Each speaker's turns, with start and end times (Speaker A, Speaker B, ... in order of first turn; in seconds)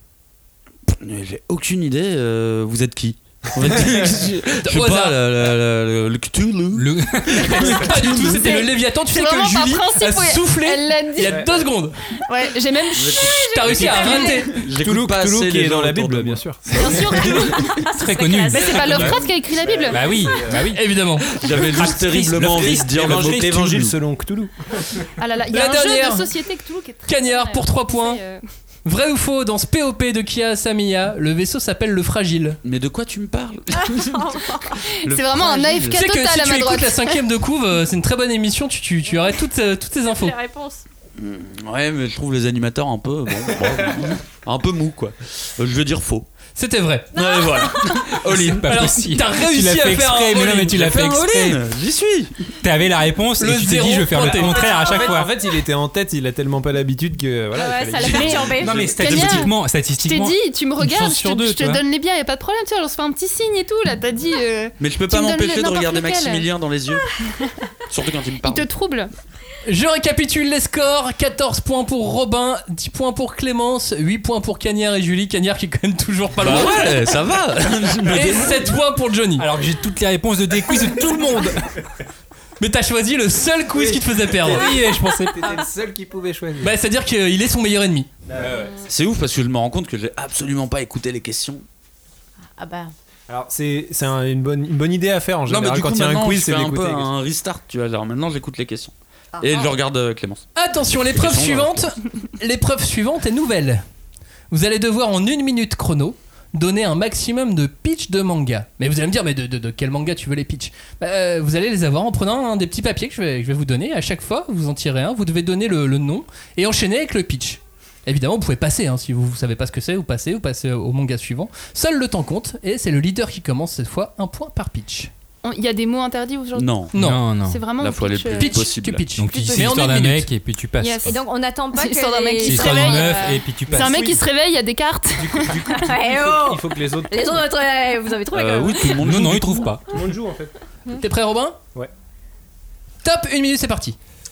Speaker A: 0.9-8.7, 12.9-16.4, 21.3-24.0, 32.6-36.0, 41.2-46.3, 47.1-48.9, 50.6-52.4, 58.7-59.4, 64.8-67.2, 67.9-68.7, 76.4-78.8, 88.9-91.6, 95.5-101.9, 126.5-126.9, 127.8-129.1, 138.3-139.8
Speaker B: 4.6-5.2, 7.4-12.0, 13.3-14.6, 20.7-21.3, 25.5-26.3, 27.1-28.2, 28.9-32.6, 35.9-40.4, 46.6-47.2, 48.7-50.9, 53.4-54.7, 69.7-77.0, 78.1-79.5, 82.6-84.7, 86.6-88.1, 100.6-103.8, 104.5-125.1, 126.9-127.2, 128.4-130.3, 140.9-141.6, 143.0-144.0
Speaker C: 6.7-7.9, 17.9-19.2, 19.9-20.8, 21.5-23.6, 48.2-51.6, 52.6-55.3, 58.5-61.8, 79.4-81.8, 84.5-85.6, 88.4-88.7, 127.0-127.6, 129.2-131.1, 132.4-134.1, 139.0-139.8
Speaker D: 8.4-11.5, 12.2-13.4, 16.7-17.8, 18.5-20.1, 25.2-28.4, 35.0-37.2, 58.1-66.5, 68.4-69.1, 125.4-128.7, 129.3-129.7, 130.8-131.2, 131.7-135.9
Speaker E: 11.2-11.7, 14.7-17.5, 19.1-20.6, 22.6-25.1, 54.1-58.9, 83.7-86.7, 93.3-97.1, 133.7-134.2, 135.2-137.5, 139.9-140.5
Speaker F: 13.2-14.5, 17.4-19.1, 20.1-20.5, 33.7-34.8, 40.1-40.9, 47.2-47.7, 57.5-59.3, 92.6-92.9, 99.3-99.8, 131.0-133.4, 135.7-139.1